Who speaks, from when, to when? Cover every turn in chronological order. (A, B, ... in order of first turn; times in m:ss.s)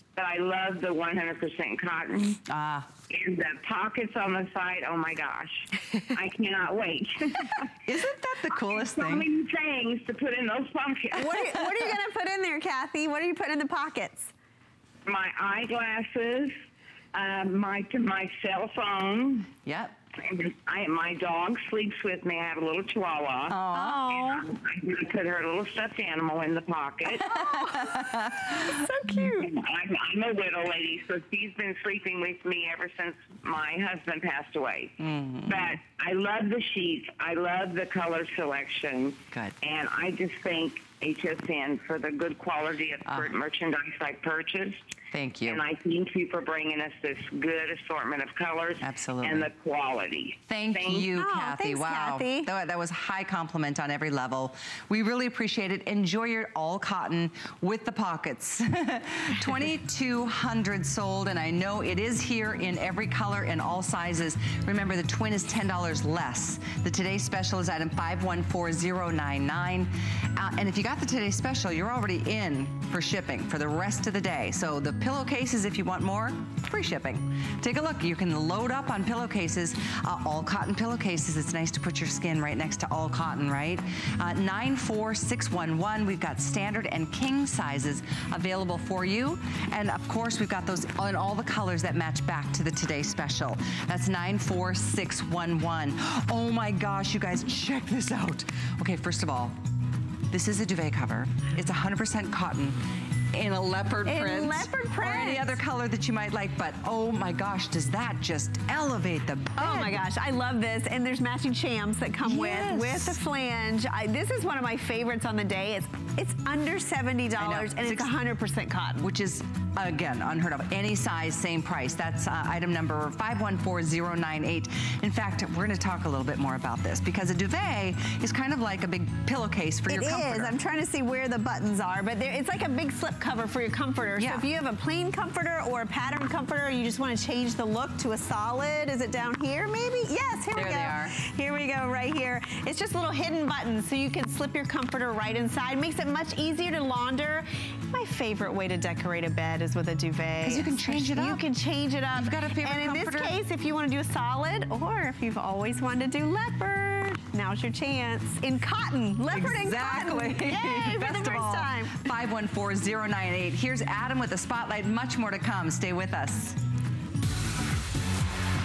0:00.1-0:02.4 A
0:02.4-0:02.9 B
0:03.1-0:07.7 A
0:07.8-0:09.3 B
0:08.7-0:11.7 A
0:11.2-0:14.3 C
0:15.0-0:16.5 A
0:17.1-0:19.5 A
0:19.6-0:20.0 B
0:20.2-0:23.6 A
0:23.5-0:24.1 B
0:23.7-0:24.4 C
0:24.1-0:27.4 A
0:27.2-0:28.8 B
0:27.2-0:29.6 C
0:29.4-0:44.8 A
0:35.0-0:35.8 B
0:43.0-0:43.3 B
0:45.1-0:45.6 B
0:45.4-0:51.1 A
0:48.8-0:49.5 B
0:50.5-1:39.6 B
0:51.1-0:52.5 C
1:40.3-1:42.8 B
1:43.3-1:50.0 B
1:44.0-1:45.6 C
1:49.6-1:59.0 C
1:52.2-1:53.2 B
1:57.4-1:58.1 B
1:59.0-2:10.6 B
2:09.9-2:42.0 C
2:14.2-2:14.4 B
2:20.5-2:21.2 B
2:30.4-2:31.4 B
2:32.1-2:33.4 B
2:39.3-2:46.6 B